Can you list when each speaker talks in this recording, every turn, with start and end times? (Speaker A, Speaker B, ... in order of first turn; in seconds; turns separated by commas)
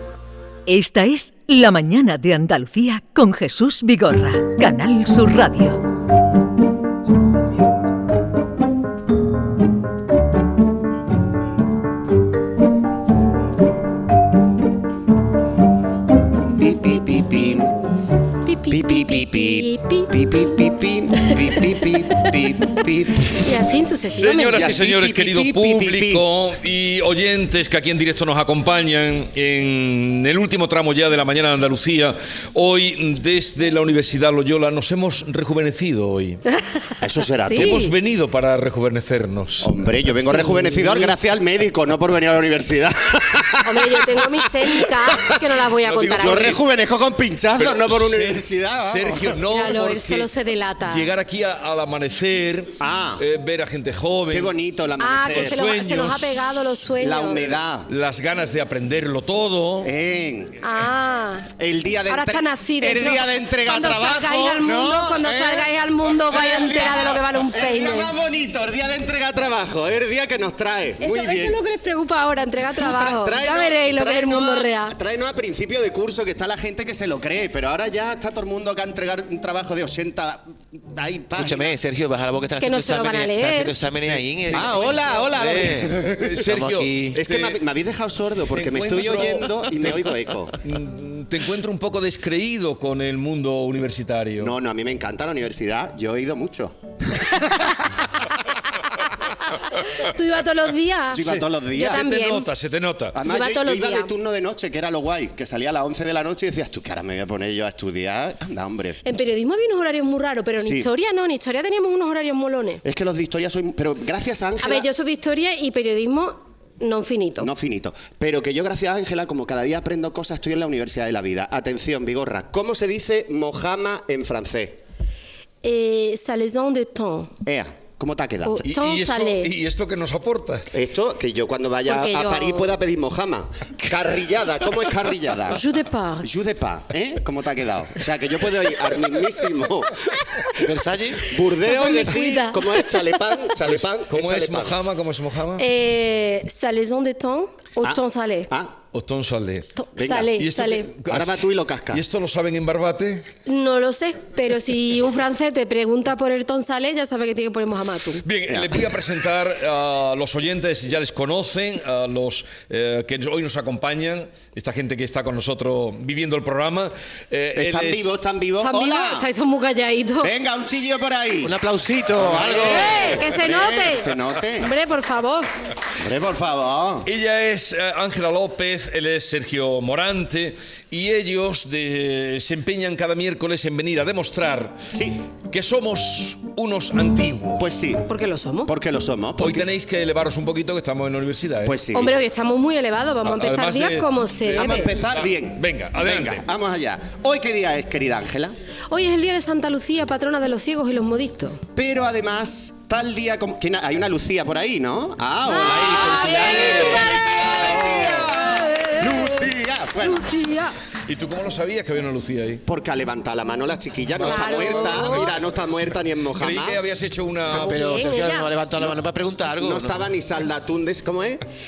Speaker A: 0.7-5.8, Speaker B: 16.5-17.7, Speaker C: 18.4-20.1, Speaker B: 18.7-23.5, Speaker C: 21.2-21.6, Speaker C: 23.3-24.8, Speaker D: 24.0-36.4, Speaker B: 24.6-26.3, Speaker C: 36.5-36.9, Speaker B: 37.0-37.8, Speaker C: 37.4-37.9, Speaker D: 37.5-39.7, Speaker B: 39.6-44.8, Speaker C: 43.6-46.6, Speaker D: 45.8-46.6, Speaker B: 46.2-49.4, Speaker D: 47.5-50.3, Speaker C: 49.5-51.1, Speaker D: 50.8-54.5, Speaker B: 52.8-53.2, Speaker B: 54.3-55.6, Speaker C: 55.0-57.4, Speaker D: 55.3-56.4, Speaker B: 57.0-57.9, Speaker D: 57.9-59.9, Speaker B: 59.8-60.6, Speaker C: 60.6-61.5, Speaker B: 61.5-71.6, Speaker C: 62.1-68.1, Speaker C: 71.0-75.0, Speaker B: 72.8-81.8, Speaker E: 81.3-87.2, Speaker C: 82.6-83.7, Speaker B: 84.5-86.5, Speaker D: 86.2-87.6, Speaker B: 87.1-90.5, Speaker D: 88.5-89.5, Speaker D: 90.6-94.5, Speaker B: 94.4-97.8, Speaker C: 99.8-102.5, Speaker B: 101.1-102.5, Speaker D: 101.2-103.2, Speaker B: 103.1-109.0, Speaker C: 103.2-104.1, Speaker C: 109.0-112.8, Speaker B: 110.6-110.9, Speaker B: 112.8-114.9, Speaker C: 114.6-117.5, Speaker B: 117.4-124.8, Speaker C: 125.6-127.3, Speaker B: 127.4-128.6, Speaker C: 128.4-129.5, Speaker D: 128.6-130.7, Speaker B: 130.7-135.6, Speaker C: 131.8-132.7, Speaker C: 135.5-136.3, Speaker B: 136.2-144.8, Speaker E: 140.6-141.2, Speaker C: 141.6-143.2, Speaker D: 143.7-145.7, Speaker C: 145.6-148.5, Speaker B: 147.8-148.7, Speaker D: 148.9-149.7, Speaker C: 149.8-150.9, Speaker B: 150.0-150.3, Speaker D: 150.4-151.4, Speaker B: 151.1-152.0, Speaker D: 151.9-153.3, Speaker C: 153.5-158.2, Speaker D: 158.2-168.1, Speaker B: 158.5-158.8, Speaker B: 167.6-169.3, Speaker C: 168.6-170.3, Speaker B: 170.2-171.6, Speaker E: 171.4-173.2, Speaker B: 172.2-174.7, Speaker C: 172.8-175.5, Speaker D: 173.3-173.7, Speaker B: 176.0-177.1, Speaker D: 177.1-184.8, Speaker B: 184.9-185.2, Speaker D: 185.5-187.7, Speaker B: 187.6-189.7, Speaker C: 188.1-188.7, Speaker D: 189.4-191.8, Speaker B: 191.6-192.2, Speaker C: 191.9-194.9, Speaker D: 193.2-196.4, Speaker B: 194.5-198.6, Speaker C: 198.9-201.6, Speaker B: 201.8-210.3, Speaker C: 205.5-210.8, Speaker E: 205.6-207.1, Speaker D: 211.1-212.6, Speaker B: 212.7-216.8, Speaker D: 214.2-215.4, Speaker C: 214.2-215.3, Speaker D: 216.3-217.7, Speaker E: 217.5-220.1, Speaker C: 217.5-218.5, Speaker B: 219.6-221.4